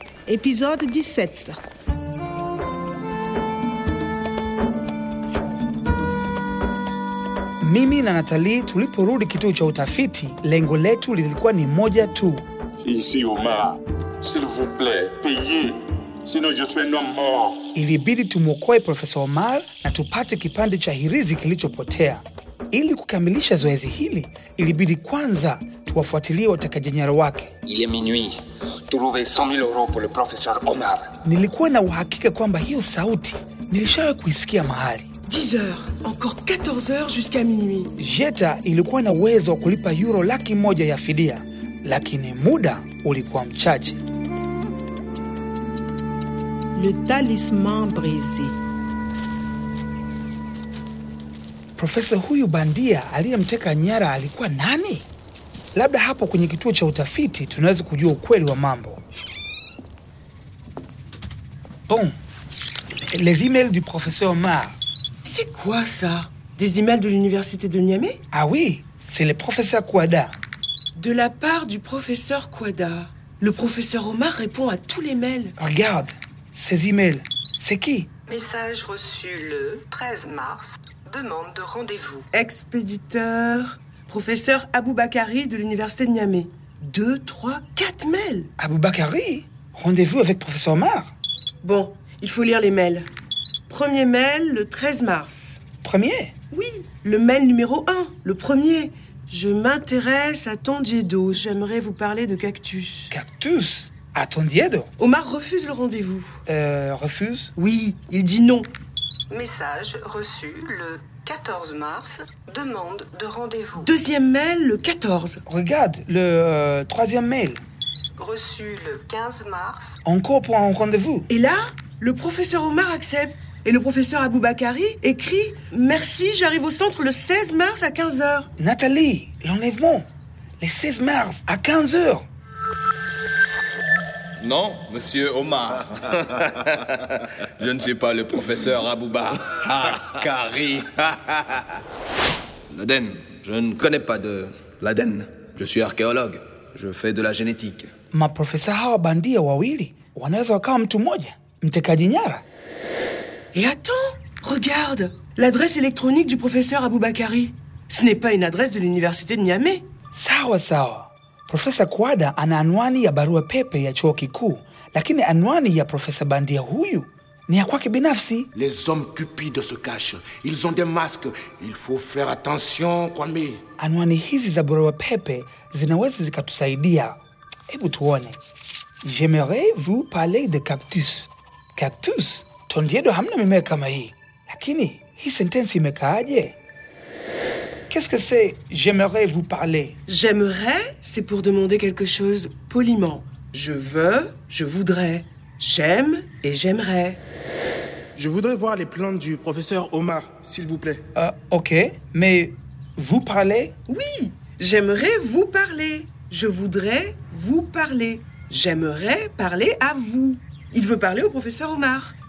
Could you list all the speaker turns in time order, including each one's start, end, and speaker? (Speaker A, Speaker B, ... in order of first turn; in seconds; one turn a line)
Speaker A: 0.3-1.6
Speaker B: 7.6-12.4
Speaker C: 12.9-13.7
Speaker C: 14.2-15.7
Speaker C: 16.3-17.5
Speaker B: 17.7-27.5
Speaker D: 27.7-28.4
Speaker D: 28.9-31.1
Speaker B: 31.2-35.1
Speaker E: 35.3-37.9
Speaker B: 38.0-44.0
Speaker A: 46.8-48.5
Speaker B: 51.8-55.1
Speaker B: 55.8-59.0
Speaker B: 61.9-62.2
Speaker B: 63.1-64.8
Speaker E: 65.3-68.2
Speaker B: 68.3-70.4
Speaker E: 71.0-75.5
Speaker B: 75.6-78.1
Speaker F: 78.3-82.3
Speaker E: 82.3-88.5
Speaker B: 88.6-91.1
Speaker E: 91.6-93.1
Speaker E: 93.7-95.6
Speaker B: 95.8-96.3
Speaker E: 96.5-103.1
Speaker B: 103.1-104.9
Speaker E: 105.0-106.3
Speaker B: 106.5-107.5
Speaker E: 107.6-108.7
Speaker F: 109.3-113.9
Speaker E: 113.8-115.4
Speaker B: 115.5-117.6
Speaker F: 118.2-120.0
Speaker B: 120.0-121.3
Speaker E: 121.3-128.5
Speaker B: 128.6-130.1
Speaker B: 130.6-132.3
Speaker G: 134.4-137.0
Speaker G: 137.6-141.6
Speaker G: 142.7-147.9
Speaker B: 148.1-152.4
Speaker E: 153.5-159.8
Speaker B: 160.1-168.5
Speaker H: 168.5-173.6
Speaker B: 173.8-177.2
Speaker B: 177.7-178.4
Speaker B: 179.0-186.5
Speaker B: 187.9-190.0
Speaker E: 190.1-197.2
Speaker I: 198.2-201.0
Speaker B: 201.2-203.7
Speaker E: 203.9-212.1